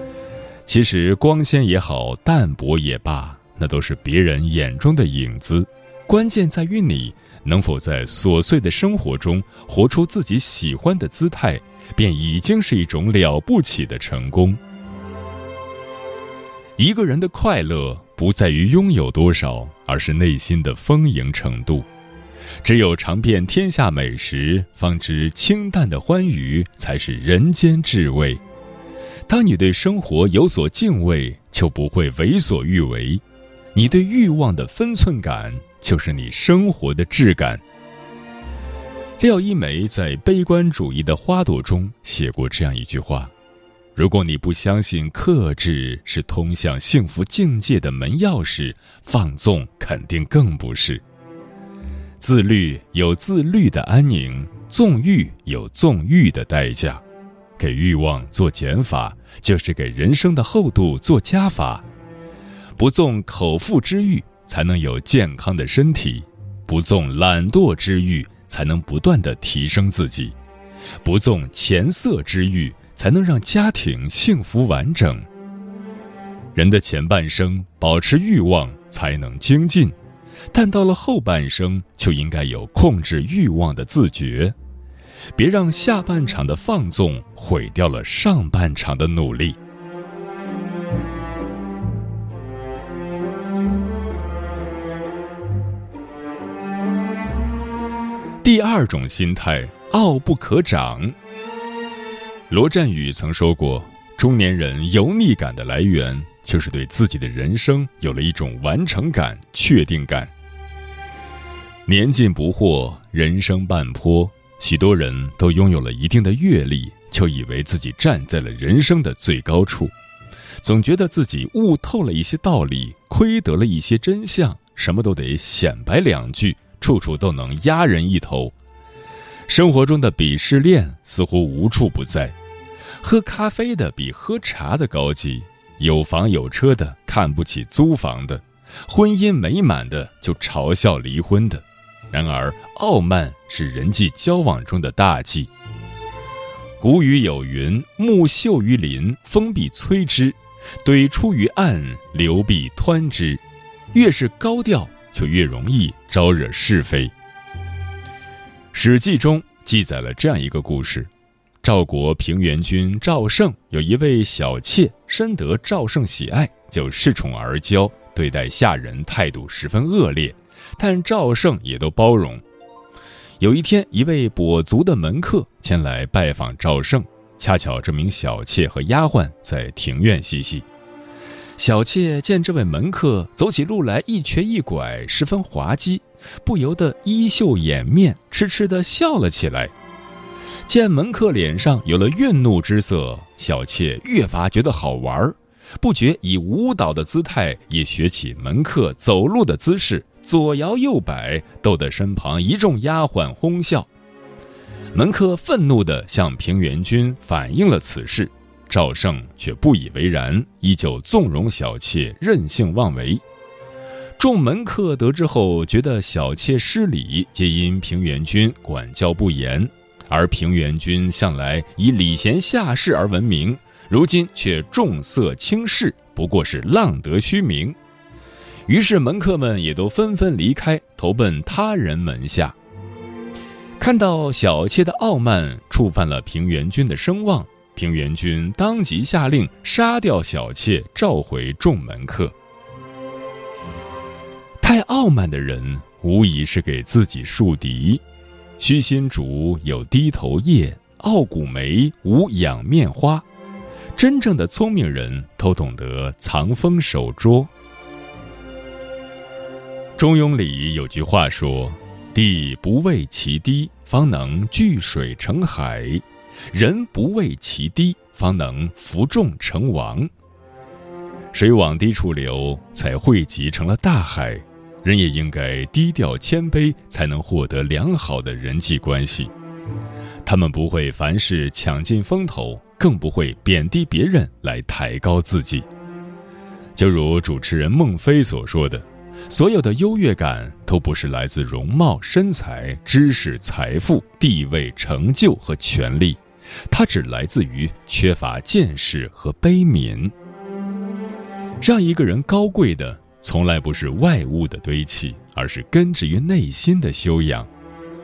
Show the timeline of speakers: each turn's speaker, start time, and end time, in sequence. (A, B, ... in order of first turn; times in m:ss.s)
0:00.7-0:14.6 A
0:16.8-0:21.9 A
0:22.6-0:28.4 A
0:29.3-0:33.2 A
0:33.7-0:37.6 A
0:39.2-0:43.3 A
0:44.0-0:51.0 A
0:52.2-0:57.0 A
0:57.6-1:01.8 A
1:02.8-1:10.4 A
1:11.0-1:15.3 A
1:16.6-1:20.0 A
1:20.5-1:24.6 A
1:25.4-1:29.6 A
1:38.4-1:41.2 A
1:42.5-1:50.3 A
1:51.9-1:59.9 A
2:00.6-2:08.6 A
2:09.5-2:12.3 A
2:13.0-2:25.5 A
2:26.8-2:33.4 A
2:33.9-2:37.1 A
2:38.7-2:41.1 A
2:41.6-2:52.4 A
2:53.4-3:00.6 A
3:01.6-3:09.7 A
3:10.7-3:23.9 A
3:24.9-3:33.2 A
3:34.2-3:47.8 A
3:48.7-3:52.6 A
3:53.8-4:02.4 A
4:04.6-4:08.0 A
4:08.6-4:13.2 A
4:14.0-4:17.5 A
4:20.0-4:30.1 A
4:31.3-4:39.3 A
4:40.2-4:45.7 A
4:46.8-5:00.1 A
5:01.6-5:07.5 A